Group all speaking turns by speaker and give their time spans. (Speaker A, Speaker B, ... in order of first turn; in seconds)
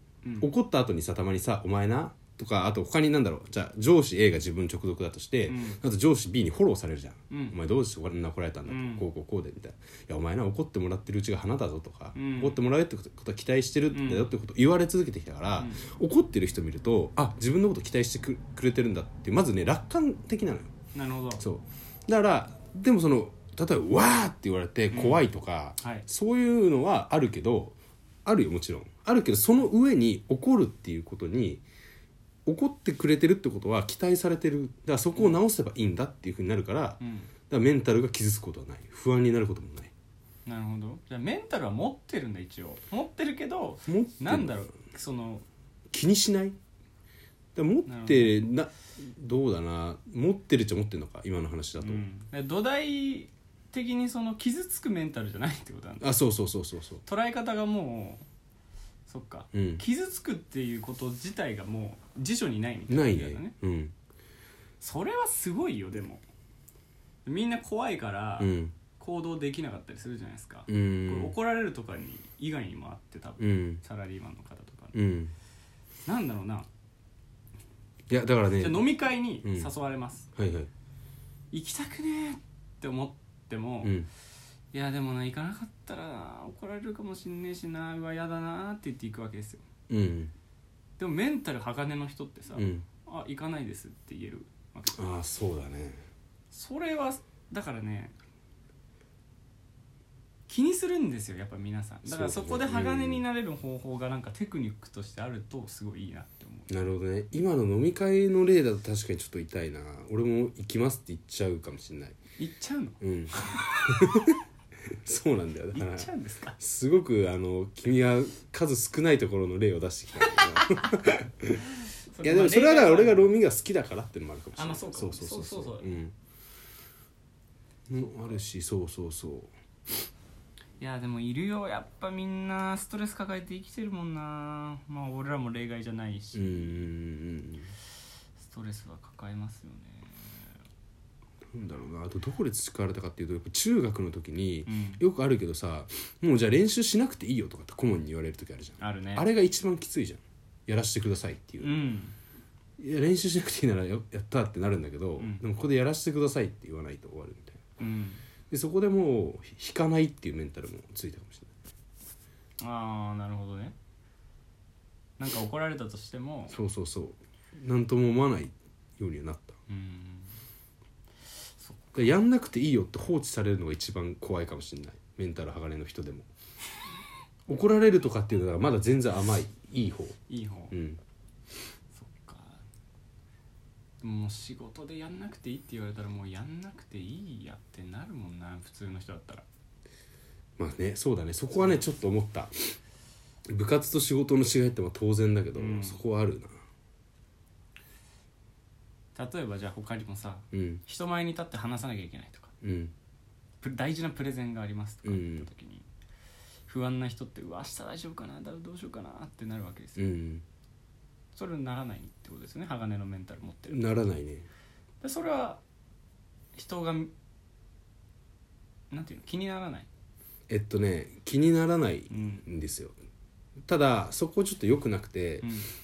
Speaker A: 0.2-0.5, 5.5-5.8, 7.3-7.6, 8.7-9.0, 12.2-12.6, 13.9-14.3, 15.6-15.8, 20.9-21.4, 24.9-25.2, 37.0-37.3, 40.5-45.5, 47.9-48.4, 51.8-56.1, 57.0-58.2, 59.1-63.5, 64.8-66.2, 67.2-75.0, 76.1-76.7, 78.5-80.3, 81.5-84.0, 84.7-89.6, 91.0-95.1, 96.5-98.2, 100.5-106.7, 112.4-114.0, 115.7-116.6, 122.1-123.3, 124.5-125.9, 130.8-136.8, 138.4-140.5, 144.7-145.0, 148.8-149.3, 151.6-152.2, 155.2-155.4, 157.8-158.2, 162.6-163.8, 165.2-166.6, 169.7-170.3, 171.6-172.1, 180.3-180.7, 181.9-182.6, 184.0-189.4, 191.6-191.8, 195.6-196.0, 199.2-202.5, 203.6-205.9, 206.7-210.0, 211.3-213.8, 215.0-215.6, 216.6-217.1, 218.9-219.9, 222.1-222.4, 225.4-225.7
Speaker B: 0.4-20.7, 21.4-31.6, 32.5-39.9, 43.9-44.7, 45.9-46.6, 47.6-52.0, 56.0-57.0, 59.5-59.8, 62.9-63.9, 68.4-68.8, 70.7-71.3, 73.4-73.8, 74.9-75.3, 78.1-79.7, 80.3-80.7, 89.9-90.3, 92.5-92.9, 94.9-96.0, 102.0-103.2, 106.7-112.2, 113.0-121.7, 122.2-126.1, 127.9-129.5, 136.3-137.7, 141.5-151.8, 152.8-157.6, 158.5-161.5, 166.5-169.6, 171.9-176.3, 177.5-180.2, 180.7-181.0, 190.6-192.8, 193.5-196.5, 200.5-200.8, 202.6-202.9, 205.1-205.5, 210.0-210.4, 213.7-214.5, 220.5-222.9, 223.7-225.5